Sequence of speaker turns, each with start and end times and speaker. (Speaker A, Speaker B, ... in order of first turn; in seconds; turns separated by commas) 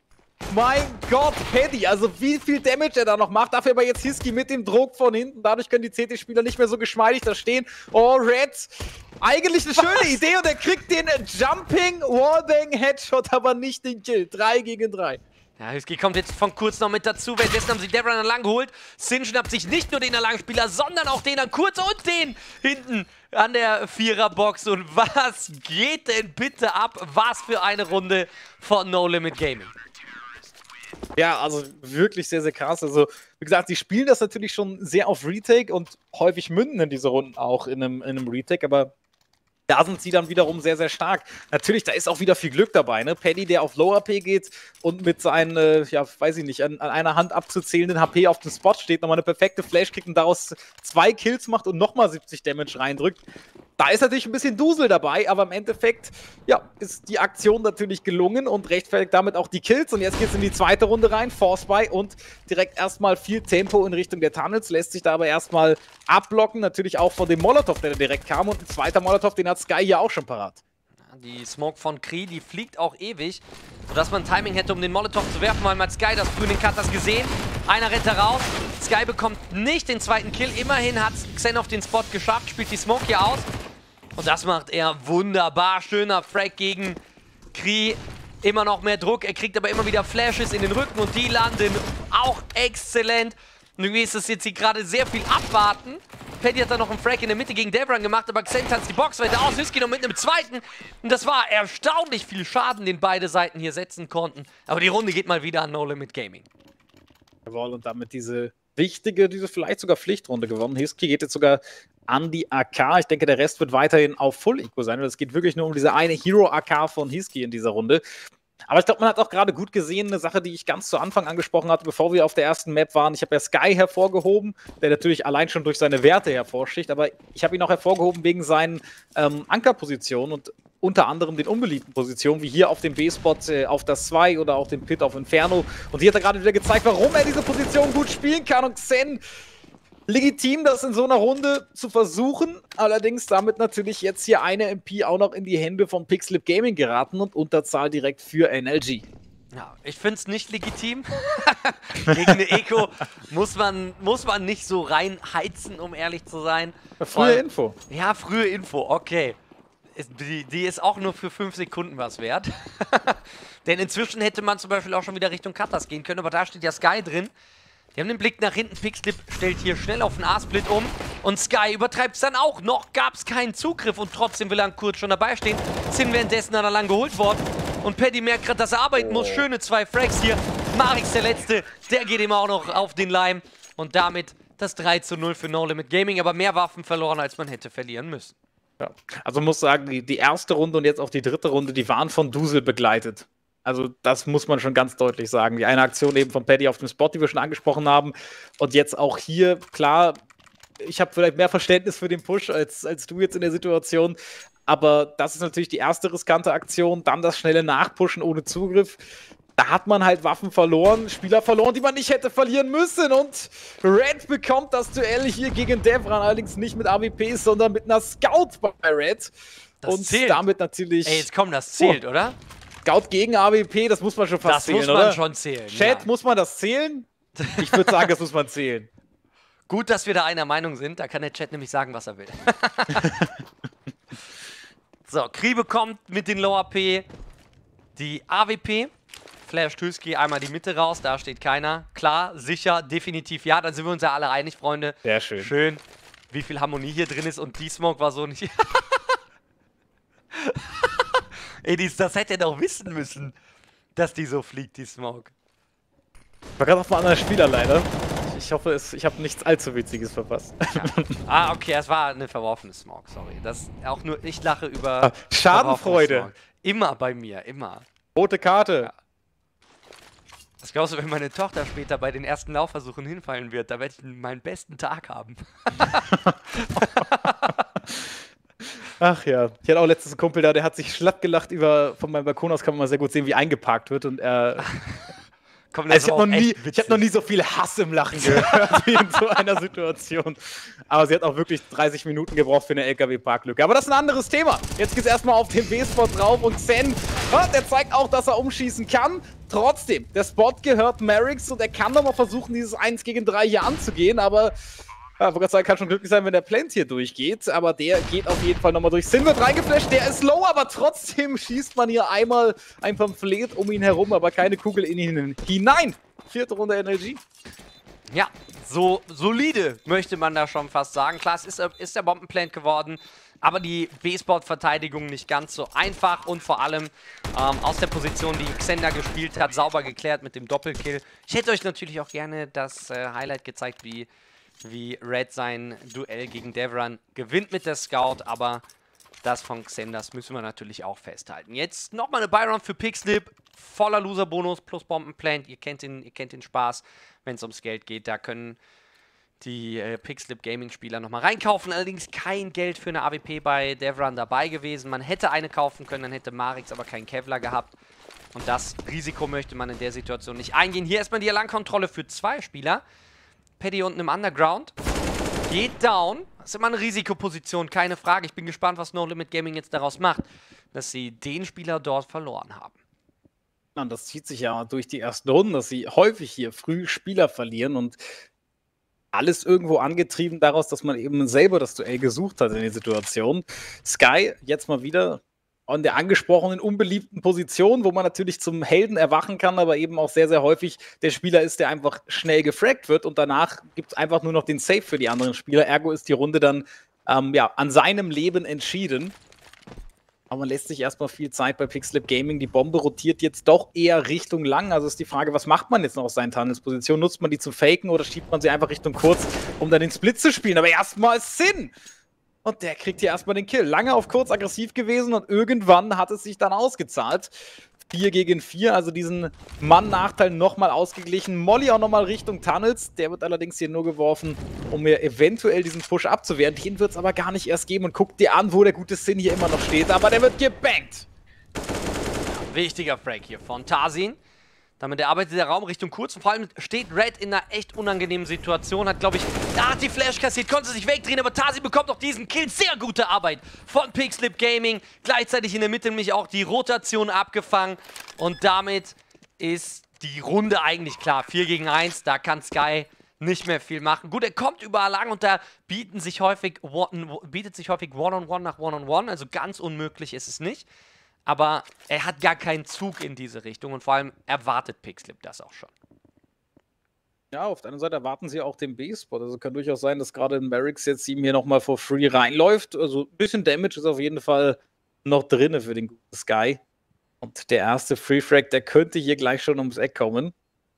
Speaker A: 0.5-15.2, Speaker B: 15.6-29.7, Speaker A: 31.1-38.9, Speaker A: 39.7-53.2, Speaker A: 53.8-70.6, Speaker B: 71.1-83.5, Speaker B: 84.1-87.0, Speaker B: 87.5-106.5, Speaker A: 107.5-118.0, Speaker A: 118.7-139.2, Speaker A: 140.1-149.1, Speaker B: 149.5-159.4, Speaker A: 157.0-157.8, Speaker B: 159.9-167.3, Speaker B: 167.9-188.3, Speaker A: 188.8-200.2, Speaker A: 200.8-219.3, Speaker B: 219.8-220.4, Speaker A: 219.8-222.0, Speaker B: 221.0-222.4, Speaker A: 222.8-225.2, Speaker B: 224.4-226.1, Speaker A: 225.7-228.9, Speaker B: 227.4-228.1, Speaker B: 229.7-233.3, Speaker A: 233.0-233.3, Speaker B: 235.1-237.1, Speaker B: 237.9-238.9, Speaker B: 239.4-249.2, Speaker A: 245.0-245.5, Speaker B: 250.3-253.3, Speaker B: 253.9-255.3, Speaker A: 256.6-261.2, Speaker B: 260.8-267.9, Speaker A: 265.0-266.3, Speaker A: 268.1-268.9, Speaker B: 270.6-277.7, Speaker A: 276.1-277.1, Speaker A: 277.9-278.1, Speaker A: 279.0-284.6, Speaker B: 284.6-285.1, Speaker B: 285.7-287.0, Speaker A: 285.9-304.5, Speaker B: 288.2-289.2, Speaker A: 305.2-317.2, Speaker B: 318.1-334.1, Speaker B: 334.6-338.6, Speaker B: 339.2-348.6, Speaker B: 349.4-357.7, Speaker B: 358.3-362.8, Speaker B: 363.6-364.7, Speaker B: 365.5-372.8, Speaker A: 373.8-378.0, Speaker A: 379.1-399.1, Speaker A: 400.3-411.7, Speaker A: 412.4-417.3, Speaker A: 417.9-431.1, Speaker B: 432.3-434.2, Speaker B: 434.8-460.7, Speaker B: 461.2-465.7, Speaker A: 467.3-476.6, Speaker A: 477.2-480.3